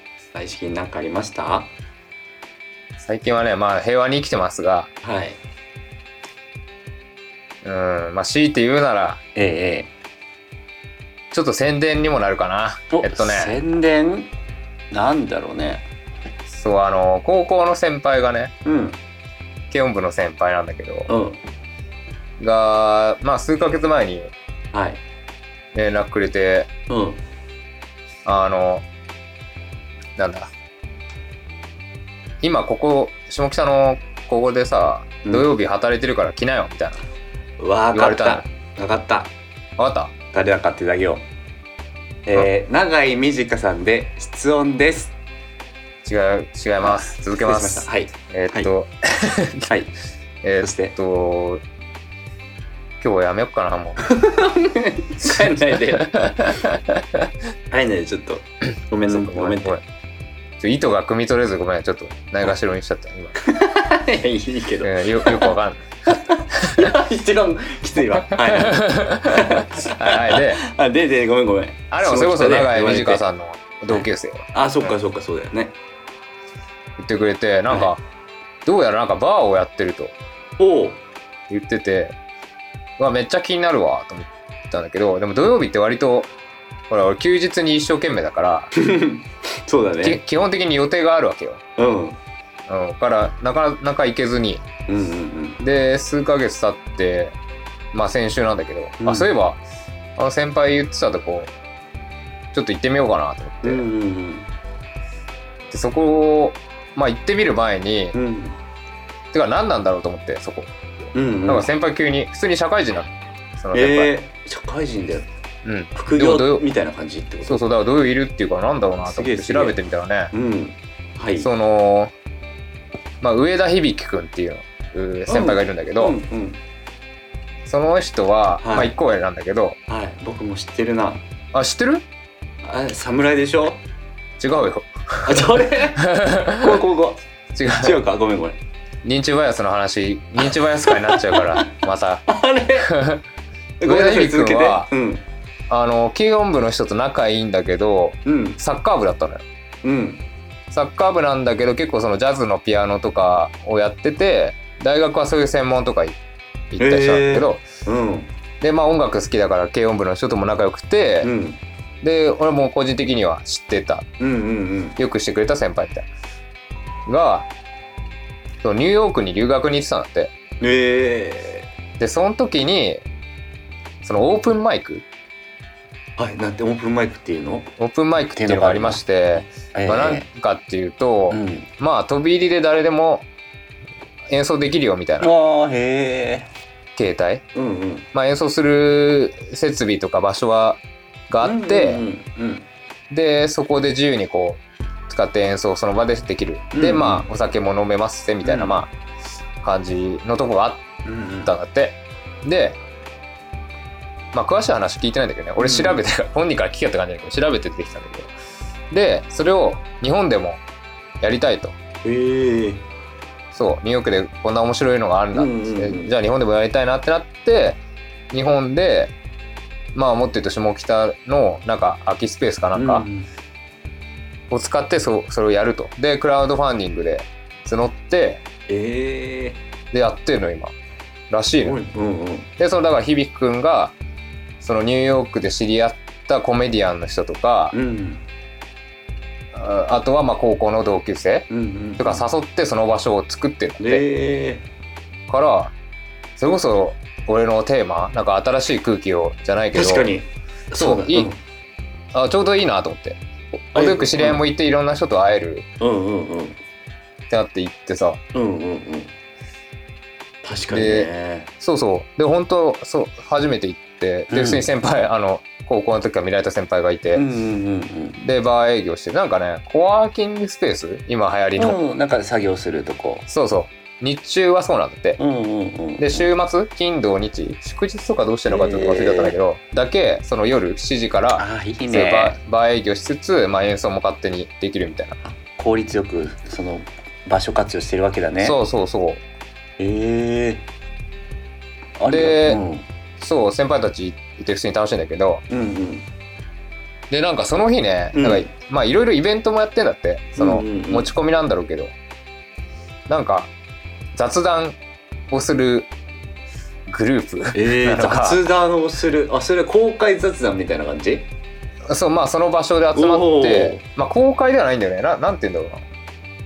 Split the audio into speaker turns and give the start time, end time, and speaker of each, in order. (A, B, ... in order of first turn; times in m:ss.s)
0:00.3-0:01.7 A
0:03.0-0:04.9 B
0:05.0-0:05.4 A
0:07.6-0:09.2 B
0:09.4-0:09.9 A
0:11.3-0:13.6 B
0:12.9-0:14.3 A
0:14.9-0:15.8 A
0:16.5-0:18.5 B
0:18.6-0:19.0 A
0:19.7-0:21.1 B
0:21.1-0:21.4 A
0:22.4-0:24.3 B
0:24.7-0:25.0 A
0:25.7-0:26.7 B
0:26.9-0:27.2 A
0:28.2-0:28.8 B
0:30.2-0:30.5 B
0:32.4-0:37.0 B
0:37.6-0:39.3 A
0:37.9-0:38.4 B
0:39.8-0:40.1 B
0:40.3-0:41.2 A
0:42.3-0:45.1 A
0:46.0-0:49.7 B
0:46.8-0:48.7 A
0:49.7-0:49.9 A
0:50.4-0:51.6 B
0:50.6-0:51.0 A
0:53.0-0:54.0 B
0:54.0-0:56.5 A
0:55.2-0:57.3 B
0:57.7-0:59.8 A
0:59.1-0:59.8 B
1:00.6-1:03.4 B
1:03.4-1:05.6 A
1:04.8-1:06.9 B
1:06.1-1:13.2 A
1:08.3-1:10.6 B
1:11.9-1:15.0 B
1:13.9-1:15.8 A
1:17.0-1:18.0 B
1:18.6-1:20.1 B
1:20.6-1:21.0 A
1:21.5-1:22.2 B
1:23.0-1:26.3 B
1:26.9-1:28.7 B
1:28.7-1:30.2 A
1:30.0-1:31.6 B
1:31.8-1:32.2 A
1:32.7-1:34.6 B
1:34.9-1:35.6 A
1:35.6-1:37.4 B
1:37.9-1:39.6 B
1:39.0-1:39.3 A
1:40.2-1:41.5 B
1:42.5-1:43.9 B
1:43.6-1:44.5 A
1:45.7-1:48.2 B
1:48.1-1:48.6 A
1:49.3-1:50.7 B
1:51.2-1:51.7 A
1:51.5-1:54.1 B
1:53.7-1:55.3 A
1:55.6-1:56.7 B
1:56.0-1:57.6 A
1:57.5-2:00.3 B
1:59.1-1:59.8 A
2:00.3-2:01.5 A
2:01.4-2:02.1 B
2:03.2-2:06.2 B
2:05.3-2:06.6 A
2:07.7-2:09.8 B
2:08.6-2:08.9 A
2:09.9-2:11.2 A
2:11.5-2:12.0 B
2:12.6-2:13.8 A
2:14.4-2:16.8 B
2:15.2-2:16.1 A
2:16.6-2:17.2 A
2:17.5-2:18.0 B
2:17.8-2:18.6 A
2:19.0-2:22.2 B
2:20.4-2:22.9 A
2:22.8-2:23.2 B
2:23.8-2:25.2 A
2:23.8-2:24.9 B
2:25.7-2:29.4 B
2:28.2-2:28.6 A
2:29.8-2:30.2 A
2:30.7-2:36.2 B
2:36.7-2:37.6 B
2:36.8-2:38.3 A
2:38.6-2:41.3 B
2:41.2-2:41.6 A
2:42.0-2:44.1 B
2:44.2-2:45.0 A
2:45.0-2:46.1 B
2:47.1-2:47.5 B
2:48.6-2:50.3 B
2:50.6-2:51.7 A
2:52.0-2:53.0 B
2:54.0-2:55.1 B
2:56.2-2:57.7 A
2:57.8-3:03.3 B
2:58.4-3:00.3 A
3:01.3-3:01.7 A
3:04.3-3:05.3 B
3:05.2-3:06.5 A
3:07.0-3:07.4 B
3:07.6-3:08.1 A
3:08.1-3:12.0 B
3:11.4-3:12.7 A
3:13.1-3:18.9 B
3:16.7-3:17.3 A
3:18.4-3:18.8 A
3:19.6-3:20.8 B
3:21.0-3:21.5 A
3:21.4-3:22.8 B
3:24.3-3:28.3 B
3:25.6-3:26.0 A
3:28.9-3:30.6 B
3:31.2-3:31.8 B
3:32.0-3:32.8 A
3:33.5-3:37.8 B
3:35.3-3:36.1 A
3:38.3-3:39.1 B
3:39.9-3:43.1 B
3:42.8-3:43.3 A
3:44.5-3:48.4 B
3:48.7-3:49.6 A
3:49.9-3:50.7 B
3:51.3-3:51.8 B
3:51.6-3:52.5 A
3:52.6-3:54.0 B
3:54.6-3:57.8 B
3:57.7-3:58.2 A
3:59.5-4:04.0 B
4:01.5-4:02.2 A
4:03.8-4:04.6 A
4:05.3-4:05.7 B
4:06.4-4:10.1 B
4:09.7-4:11.4 A
4:10.8-4:11.3 B
4:12.1-4:13.2 B
4:13.7-4:14.4 A
4:13.7-4:15.7 B
4:15.8-4:16.6 A
4:17.3-4:18.2 B
4:18.3-4:19.1 A
4:20.4-4:21.5 A
4:20.7-4:21.1 B
4:21.6-4:27.2 B
4:24.3-4:24.7 A
4:27.1-4:28.2 A
4:28.2-4:31.8 B
4:31.6-4:33.3 A
4:33.3-4:35.2 B
4:35.2-4:36.3 A
4:36.0-4:45.2 B
4:38.5-4:39.4 A
4:41.4-4:42.4 A
4:45.2-4:48.6 A
4:48.4-4:49.2 B
4:49.8-4:50.6 A
4:52.0-4:52.8 A
4:52.1-4:52.6 B
4:53.2-4:55.4 B
4:55.5-4:56.1 A
4:57.1-5:01.9 B
4:58.2-4:58.5 A
5:00.4-5:01.1 A
5:03.1-5:03.5 B
5:04.2-5:04.8 B
5:05.3-5:05.9 B
5:06.9-5:08.4 B
5:07.5-5:11.3 A
5:11.9-5:15.8 B
5:13.0-5:13.8 A